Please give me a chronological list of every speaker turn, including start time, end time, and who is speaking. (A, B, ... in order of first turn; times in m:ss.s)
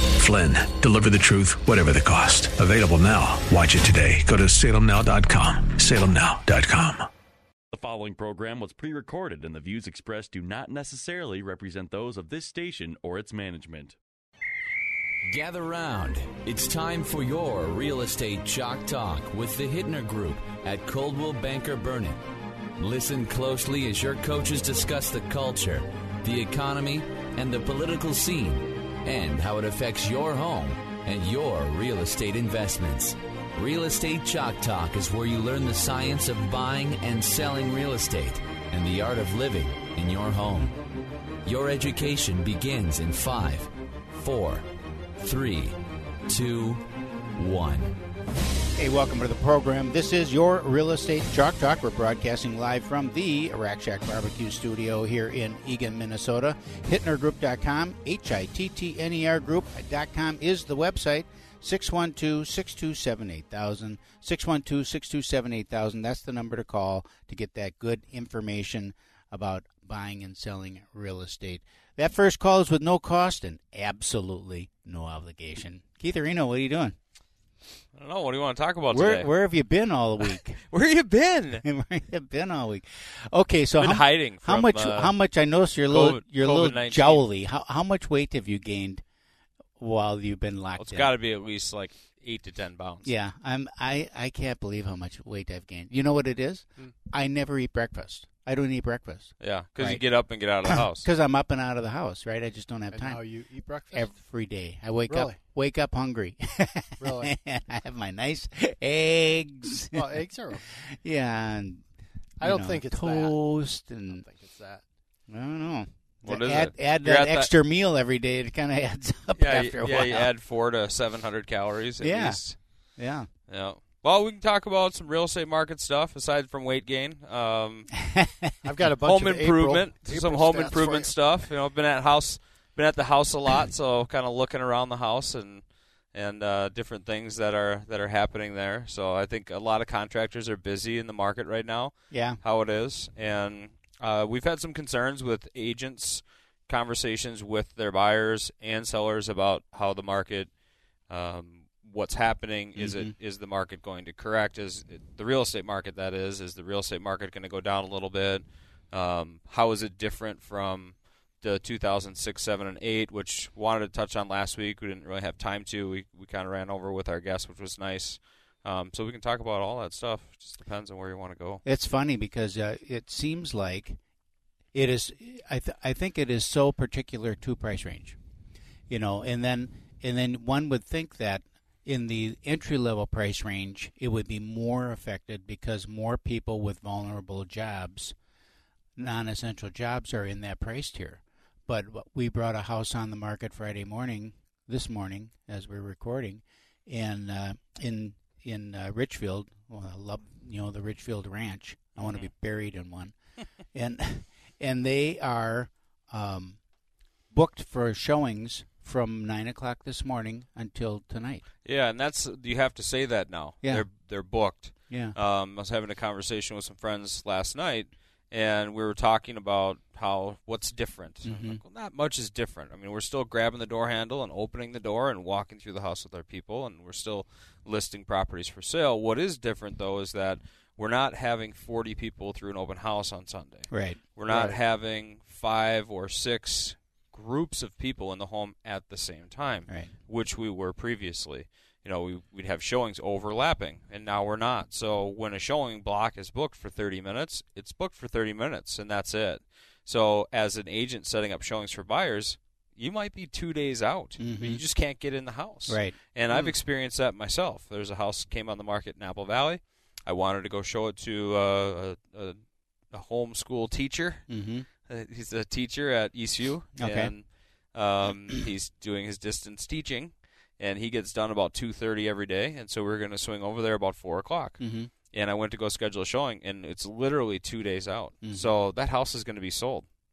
0:00.2-0:07.1 A
0:07.7-0:14.0 B
0:15.3-0:22.2 C
0:22.8-0:40.7 C
0:41.4-0:44.6 C
0:45.2-0:45.7 C
0:46.3-0:46.8 C
0:47.4-0:48.0 C
0:48.8-1:17.0 D
1:17.9-1:19.3 E
1:18.9-1:20.6 D
1:20.2-1:21.6 E
1:21.6-1:29.0 D
1:23.8-1:25.2 E
1:25.8-1:27.2 E
1:29.8-1:31.1 D
1:30.8-1:33.1 E
1:33.0-1:50.1 D
1:39.4-1:41.0 E
1:42.9-1:44.2 F
1:45.1-1:45.4 F
1:47.0-1:47.3 F
1:49.9-1:50.7 F
1:50.8-1:51.8 D
1:52.4-1:53.4 F
1:52.4-1:54.2 D
1:53.9-1:54.8 F
1:55.3-2:00.3 D
1:56.2-1:57.5 E
1:59.4-2:08.2 E
2:02.0-2:03.3 D
2:08.6-2:11.4 F
2:09.0-2:30.5 E
2:22.1-2:22.4 D
2:31.1-2:51.6 E
2:32.8-2:33.1 D
2:51.6-2:54.0 D
2:54.7-2:58.2 D
2:58.9-3:08.1 D
3:09.0-3:23.1 D
3:22.0-3:22.3 E
3:23.7-3:26.6 D
3:27.3-3:31.4 D
3:31.6-4:39.9 E
3:33.6-3:33.9 D
3:34.9-3:35.2 D
3:41.2-3:41.6 D
3:53.7-3:54.6 D
4:14.2-4:14.6 D
4:15.7-4:16.5 D
4:24.3-4:24.6 D
4:26.8-4:27.1 D
4:34.6-4:34.9 D
4:38.2-4:38.5 D